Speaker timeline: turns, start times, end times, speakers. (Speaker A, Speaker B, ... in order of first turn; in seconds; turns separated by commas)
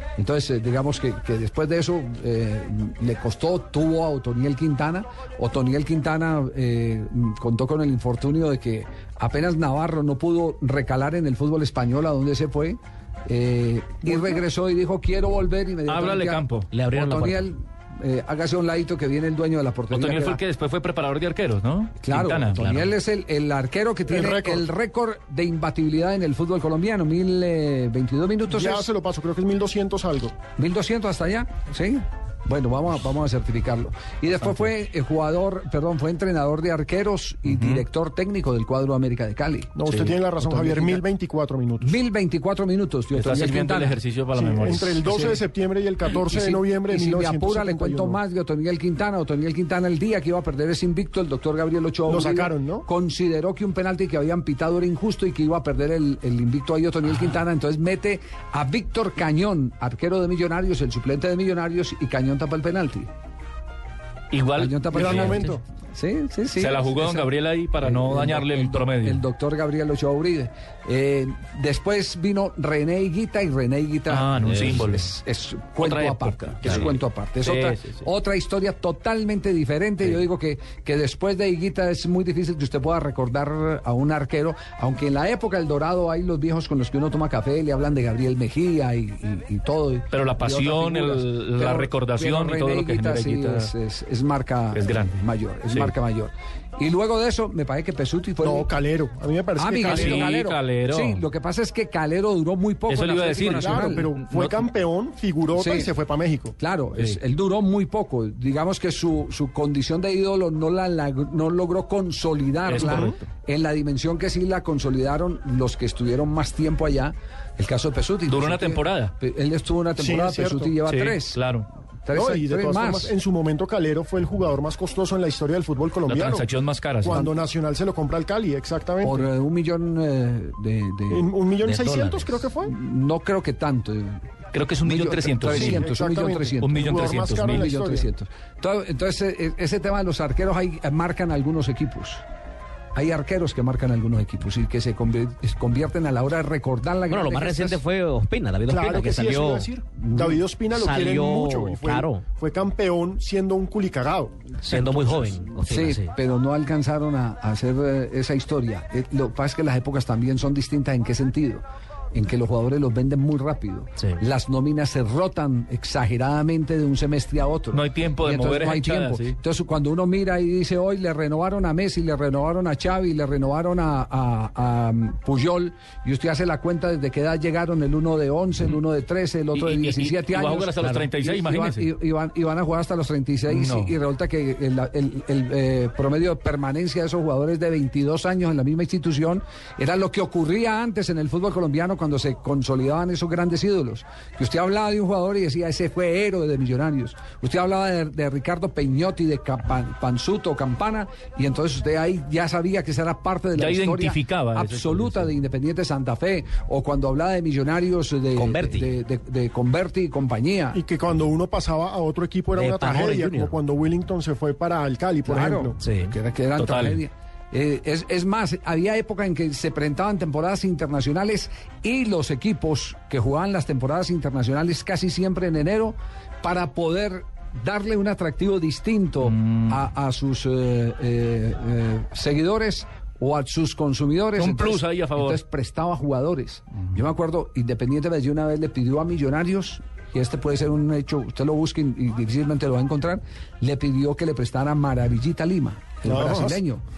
Speaker A: 0.2-20.4, Speaker B: 15.9-16.7, Speaker C: 16.7-17.5, Speaker B: 19.9-22.6, Speaker A: 22.0-28.9, Speaker C: 22.5-22.9, Speaker D: 24.1-24.7, Speaker D: 28.5-30.4, Speaker A: 30.6-39.8, Speaker B: 37.5-37.9, Speaker D: 39.8-42.0, Speaker B: 39.9-40.2, Speaker A: 40.4-41.0, Speaker A: 41.8-44.0, Speaker B: 43.1-45.3, Speaker D: 44.4-48.2, Speaker A: 45.0-45.4, Speaker A: 46.1-63.1, Speaker D: 52.1-52.9, Speaker B: 64.3-65.4, Speaker A: 64.6-98.7, Speaker D: 64.9-65.6, Speaker C: 65.2-65.5, Speaker B: 66.6-69.2, Speaker B: 74.1-75.1, Speaker C: 74.4-74.8, Speaker B: 75.8-78.0, Speaker B: 90.1-93.7, Speaker B: 94.7-95.2, Speaker D: 98.4-100.5, Speaker A: 99.5-104.1, Speaker B: 99.9-101.2, Speaker B: 102.9-104.7, Speaker D: 103.6-106.5, Speaker A: 105.5-105.9, Speaker A: 106.6-121.4, Speaker B: 112.6-113.2, Speaker B: 118.3-119.1, Speaker D: 120.0-120.8, Speaker B: 120.8-121.7, Speaker A: 122.0-123.2, Speaker D: 122.1-126.5, Speaker B: 126.1-127.3, Speaker D: 127.0-129.2, Speaker A: 129.0-131.3, Speaker D: 131.1-132.7, Speaker C: 131.6-132.5, Speaker A: 132.6-134.2, Speaker B: 134.5-135.9, Speaker A: 134.8-142.2, Speaker D: 135.5-138.1, Speaker B: 136.6-137.7, Speaker A: 142.9-147.8, Speaker C: 147.1-152.2, Speaker D: 148.7-154.4, Speaker C: 154.6-156.2, Speaker A: 155.6-210.8, Speaker B: 167.7-169.4, Speaker B: 179.6-181.9, Speaker B: 183.5-184.0, Speaker B: 203.6-205.3, Speaker C: 208.3-209.0, Speaker D: 210.7-215.8, Speaker C: 212.5-213.6, Speaker A: 215.2-246.8, Speaker C: 215.8-216.2, Speaker B: 216.6-217.0, Speaker B: 229.2-229.8, Speaker B: 234.4-235.4, Speaker D: 246.1-246.6